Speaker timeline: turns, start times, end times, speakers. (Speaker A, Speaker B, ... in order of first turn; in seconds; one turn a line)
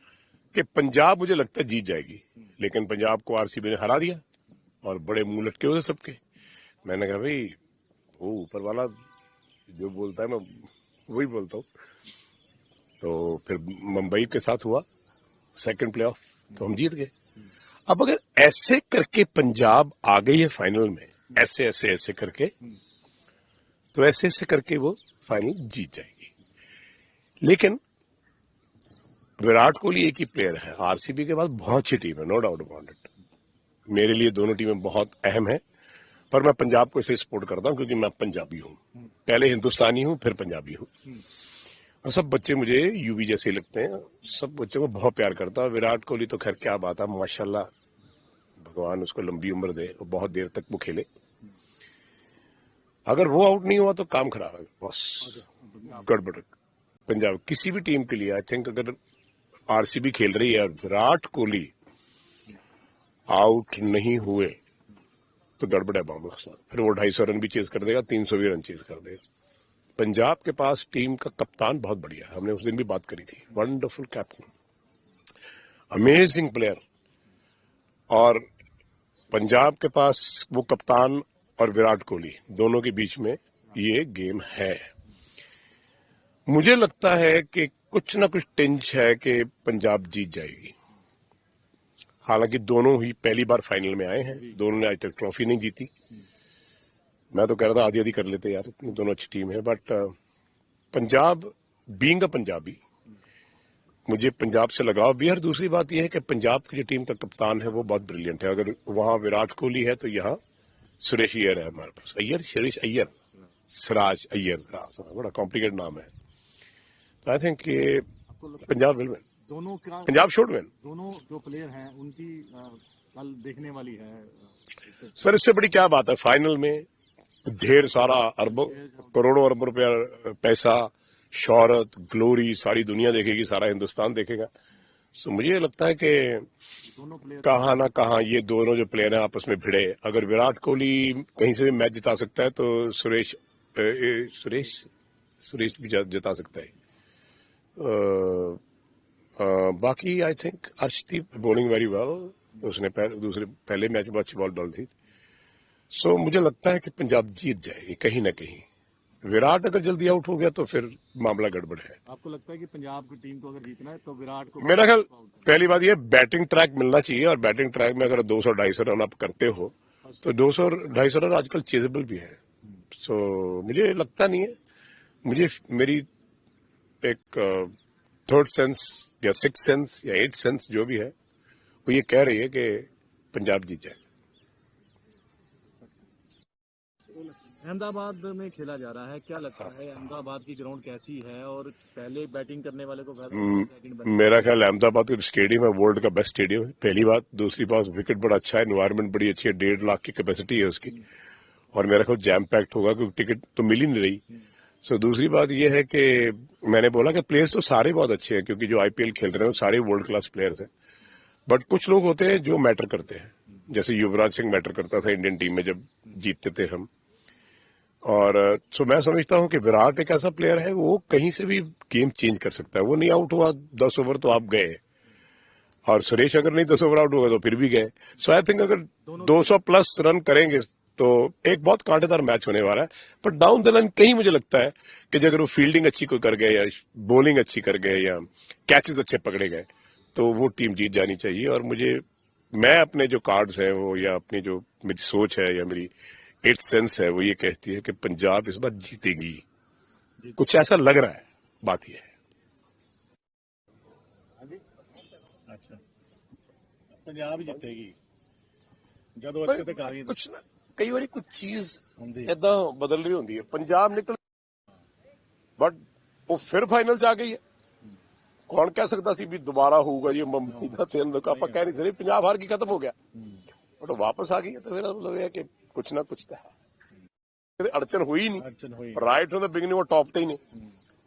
Speaker A: 0.5-4.2
Speaker A: 4.8-6.2
Speaker A: 6.8-7.6
Speaker A: 8.2-8.9
Speaker A: 9.7-11.7
Speaker A: 13.0-14.8
Speaker A: 15.6-17.1
Speaker A: 17.9-22.5
Speaker A: 23.9-26.3
Speaker A: 27.4-27.8
Speaker A: 29.4-33.1
Speaker A: 33.9-35.6
Speaker A: 36.3-41.0
Speaker A: 42.0-47.7
Speaker A: 48.6-51.0
Speaker A: 53.1-56.5
Speaker B: 55.3-56.0
Speaker A: 57.1-59.0
Speaker A: 59.7-61.7
Speaker A: 63.3-64.6
Speaker A: 65.6-69.2
Speaker A: 70.0-74.5
Speaker A: 75.9-76.8
Speaker A: 78.1-78.4
Speaker A: 79.3-84.9
Speaker A: 86.5-90.7
Speaker A: 92.2-95.9
Speaker A: 97.3-100.1
Speaker A: 100.9-102.8
Speaker A: 104.1-110.4
Speaker A: 111.0-113.1
Speaker A: 113.7-116.1
Speaker A: 117.2-118.1
Speaker A: 118.6-119.2
Speaker B: 119.5-120.3
Speaker A: 120.0-120.7
Speaker B: 120.8-124.5
Speaker A: 125.1-126.8
Speaker A: 127.4-134.5
Speaker B: 128.6-129.1
Speaker A: 135.1-136.5
Speaker B: 136.8-137.7
Speaker A: 137.4-144.9
Speaker A: 145.4-146.7
Speaker A: 147.8-148.6
Speaker A: 149.4-154.9
Speaker A: 155.9-158.6
Speaker A: 159.2-162.0
Speaker B: 162.1-165.5
Speaker A: 164.6-172.4
Speaker A: 173.0-174.5
Speaker A: 175.2-176.1
Speaker A: 177.0-177.7
Speaker A: 178.3-181.1
Speaker A: 181.8-184.0
Speaker B: 187.1-194.3
Speaker A: 193.3-201.0
Speaker A: 201.7-204.2
Speaker A: 204.8-210.7
Speaker A: 211.5-216.9
Speaker A: 218.0-224.8
Speaker A: 225.8-245.9
Speaker A: 246.4-249.4
Speaker A: 250.4-252.1
Speaker B: 255.5-255.8
Speaker B: 256.9-257.9
Speaker B: 259.2-260.2
Speaker A: 259.5-264.2
Speaker B: 262.0-262.3
Speaker A: 265.6-267.4
Speaker A: 268.5-272.9
Speaker B: 271.3-271.6
Speaker A: 273.8-276.6
Speaker A: 277.6-280.4
Speaker B: 278.4-279.1